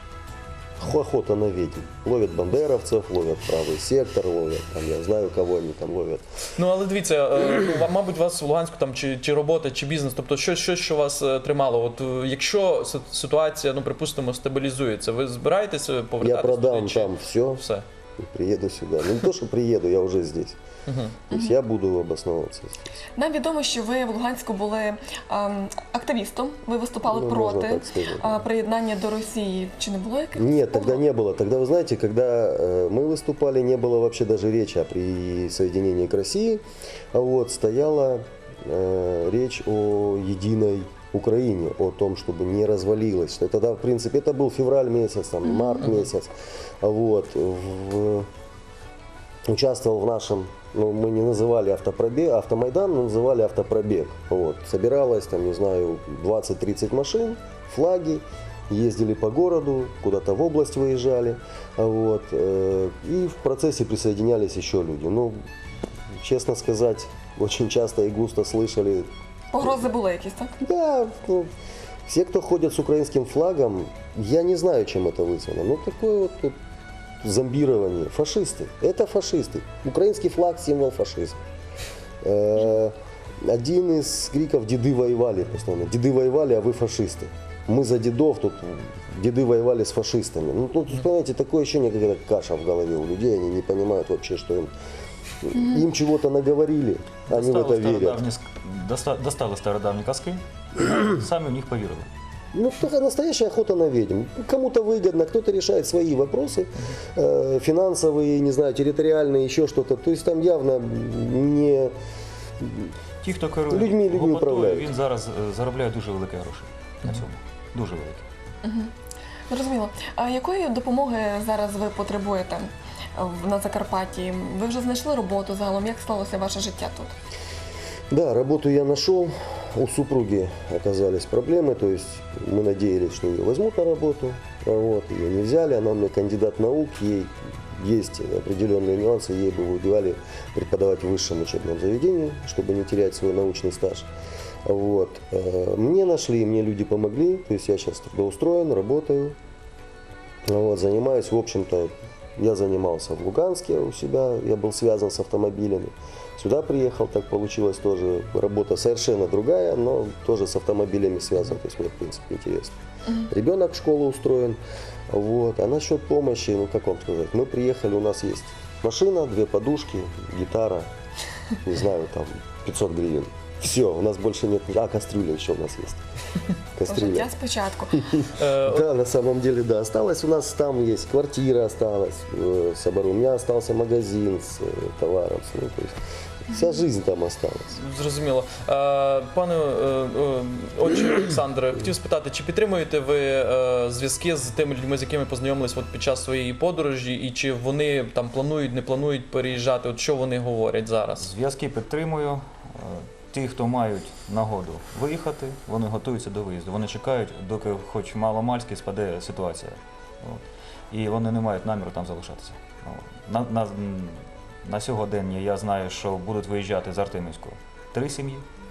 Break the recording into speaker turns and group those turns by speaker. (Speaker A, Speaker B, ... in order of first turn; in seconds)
Speaker A: 0.8-6.2, 16.2-17.6, 18.2-20.6, 21.3-22.8, 27.1-28.4, 30.3-36.6, 37.1-46.3, 46.8-48.3, 49.5-65.3, 66.2-69.1, 70.6-71.5, 72.1-76.5, 77.2-81.4, 82.2-94.7, 95.4-98.2, 102.5-111.9, 112.6-112.9, 113.7-114.9, 128.1-144.1, 144.6-149.3, 150.4-162.8, 163.3-164.6, 165.1-170.9, 171.6-176.0, 176.8-177.3, 178.0-185.9, 186.5-187.8
Speaker B: 6.5-17.8, 20.9-21.2, 178.4-178.8, 187.7-201.3
Speaker C: 23.2-31.0, 45.5-45.8, 69.5-70.5, 118.6-118.9, 119.5-127.1, 176.9-178.0
Speaker D: 97.3-102.1, 113.2-118.2, 201.2-218.4